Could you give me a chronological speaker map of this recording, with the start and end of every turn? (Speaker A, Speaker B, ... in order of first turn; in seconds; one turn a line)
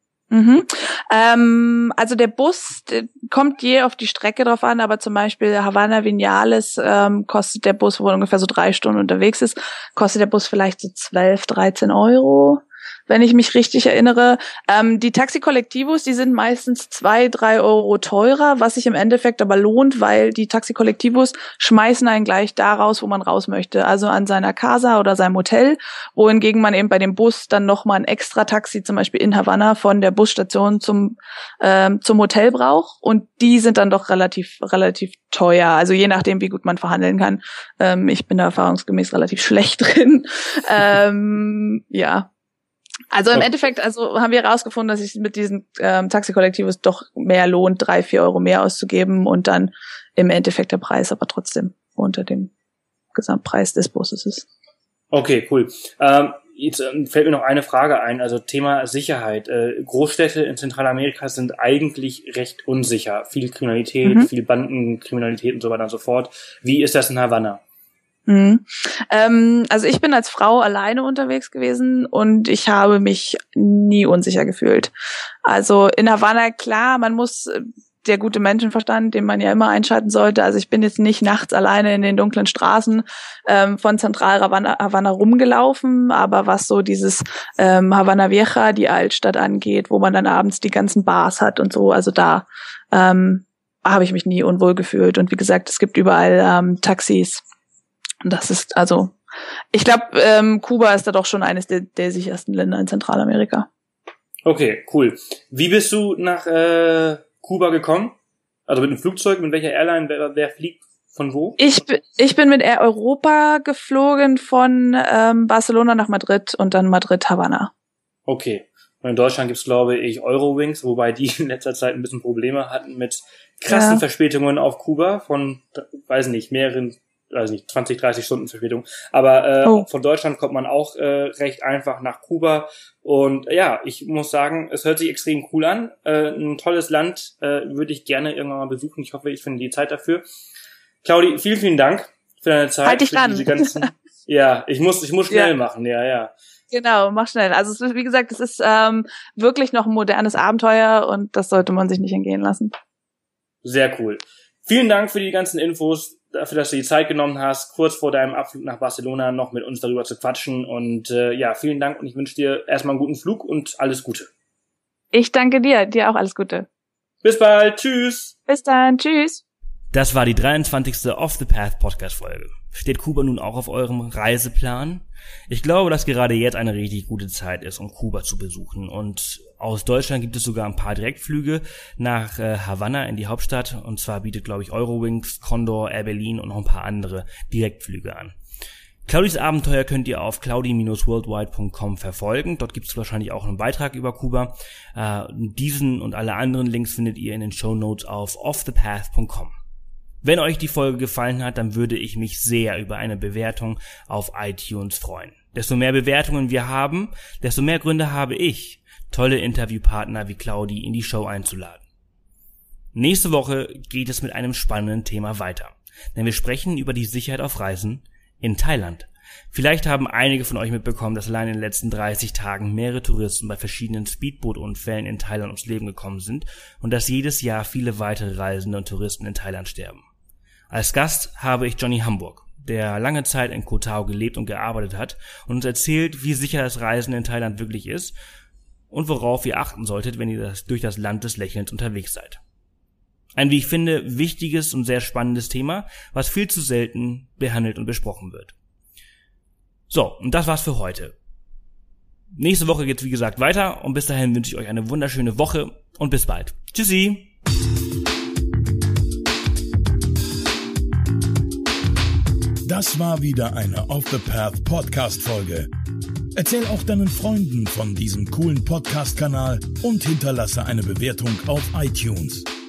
Speaker A: 0.3-42.3
Speaker A: 43.1-52.5
Speaker A: 53.1-54.5
Speaker B: 55.1-67.6
Speaker A: 68.3-74.9
Speaker A: 75.5-97.4
Speaker A: 98.2-99.1
Speaker A: 99.7-103.7
Speaker B: 104.5-108.2
Speaker B: 108.7-111.6
Speaker A: 111.6-117.7
Speaker B: 118.3-140.2
Speaker A: 123.7-124.0
Speaker B: 141.0-146.3
Speaker A: 142.9-143.7
Speaker A: 146.7-152.8
Speaker B: 153.6-164.3
Speaker A: 165.1-166.7
Speaker B: 167.2-168.4
Speaker A: 168.5-169.4
Speaker B: 169.9-188.4
Speaker B: 189.1-199.6
Speaker B: 200.2-211.8
Speaker B: 212.9-230.0
Speaker B: 230.7-238.1
Speaker B: 238.9-242.4
Speaker B: 243.4-248.6
Speaker B: 249.9-251.1
Speaker B: 252.3-257.3
Speaker C: 262.7-265.7
Speaker C: 266.4-272.5